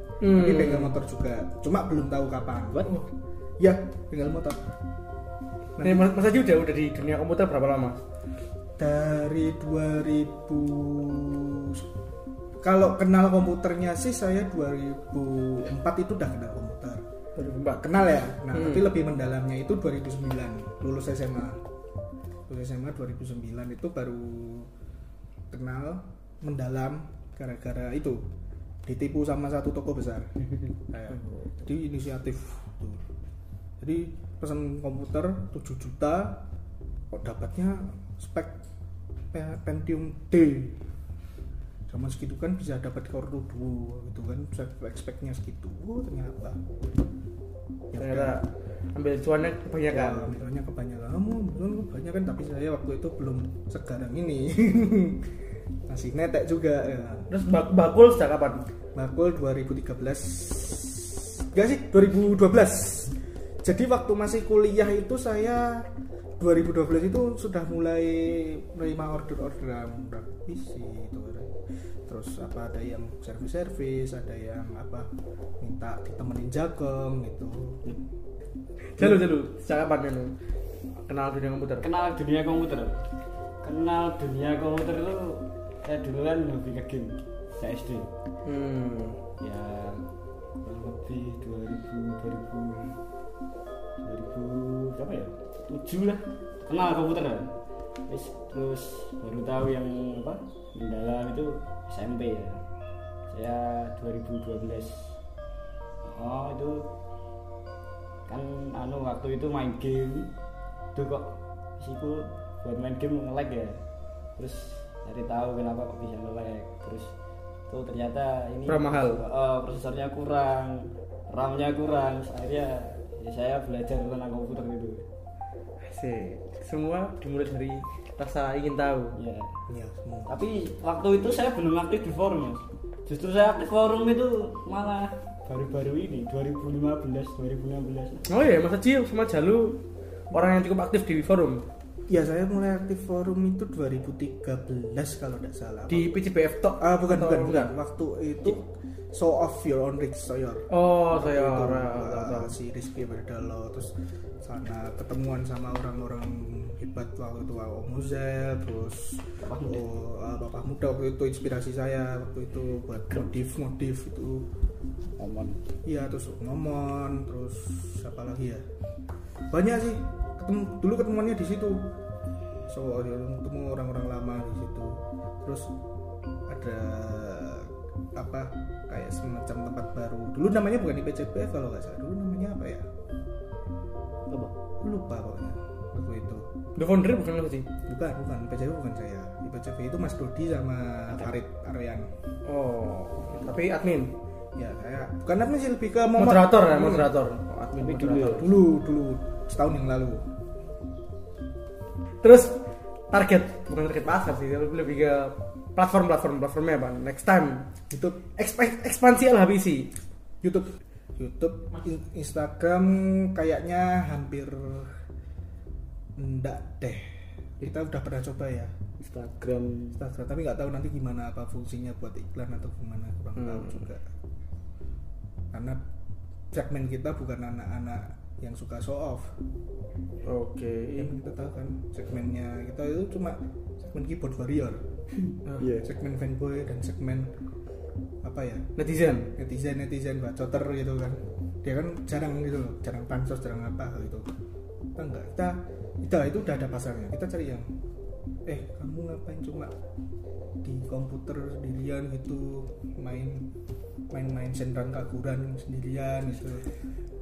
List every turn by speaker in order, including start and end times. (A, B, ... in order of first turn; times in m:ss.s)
0:00.2-0:01.0 A
0:00.3-0:03.0 B
0:03.6-0:04.6 B
0:05.8-0:06.1 B
0:05.8-0:08.0 A
0:08.8-0:11.8 B
0:12.6-0:17.0 B
0:17.4-0:17.8 A
0:17.8-0:21.6 B
0:18.5-0:18.9 A
0:22.5-0:24.7 B
0:25.5-0:28.2 B
0:28.8-0:30.4 B
0:30.9-0:33.0 B
0:33.8-0:36.4 B
0:37.1-0:38.6 B
0:39.3-0:40.8 B
0:41.9-0:46.8 B
0:47.9-0:48.4 B
0:48.0-0:50.4 A
0:49.9-0:55.3 B
0:55.9-0:57.3 B
0:57.3-0:58.6 A
0:59.0-1:05.9 B
1:06.4-1:11.5 B
1:12.1-1:15.1 B
1:15.6-1:17.8 B
1:19.0-1:20.3 A
1:19.0-1:19.3 B
1:21.1-1:21.9 A
1:21.8-1:23.0 C
1:23.6-1:28.1 C
1:28.4-1:29.2 A
1:29.4-1:30.1 C
1:30.6-1:33.0 C
1:34.0-1:37.6 C
1:38.1-1:42.6 C
1:43.3-1:45.2 C
1:46.0-1:46.9 C
1:48.3-1:50.3 C
1:51.0-1:53.8 C
1:54.4-1:57.1 C
1:57.7-2:05.1 C
1:58.7-1:59.2 A
2:05.8-2:09.2 A
2:09.2-2:09.6 C
2:09.7-2:10.3 B
2:10.3-2:18.3 C
2:18.3-2:21.6 A
2:22.1-2:26.2 B
2:25.9-2:27.7 A
2:26.8-2:44.5 B
2:30.7-2:32.5 A
2:39.4-2:39.8 C
2:45.2-2:45.6 C
2:45.8-2:48.6 B
2:49.5-2:51.9 B
2:52.7-2:55.7 B
2:56.5-3:02.9 B
3:04.8-3:06.5 B
3:06.8-3:07.7 A
3:07.9-3:12.1 B
3:12.5-3:14.1 A
3:14.6-3:17.1 B
3:16.2-3:18.5 A
3:17.8-3:18.5 C
3:18.4-3:20.2 B
3:22.2-3:22.6 A
3:23.1-3:27.7 A
3:27.9-3:28.3 B
3:28.4-3:29.9 A
3:30.4-3:35.0 B
3:36.2-3:38.7 B
3:39.0-3:40.0 C
3:40.0-3:44.0 B
3:43.4-3:43.8 A
3:45.5-3:45.8 B
3:46.5-3:49.3 B
3:50.2-3:51.1 A
3:51.0-3:54.8 B
3:55.6-3:55.9 C
3:55.8-3:57.3 B
3:58.2-3:58.7 B
3:58.8-3:59.3 A
3:59.4-4:04.3 B
4:05.0-4:07.7 B
4:08.4-4:09.7 B
4:10.6-4:13.5 B
4:14.1-4:16.7 B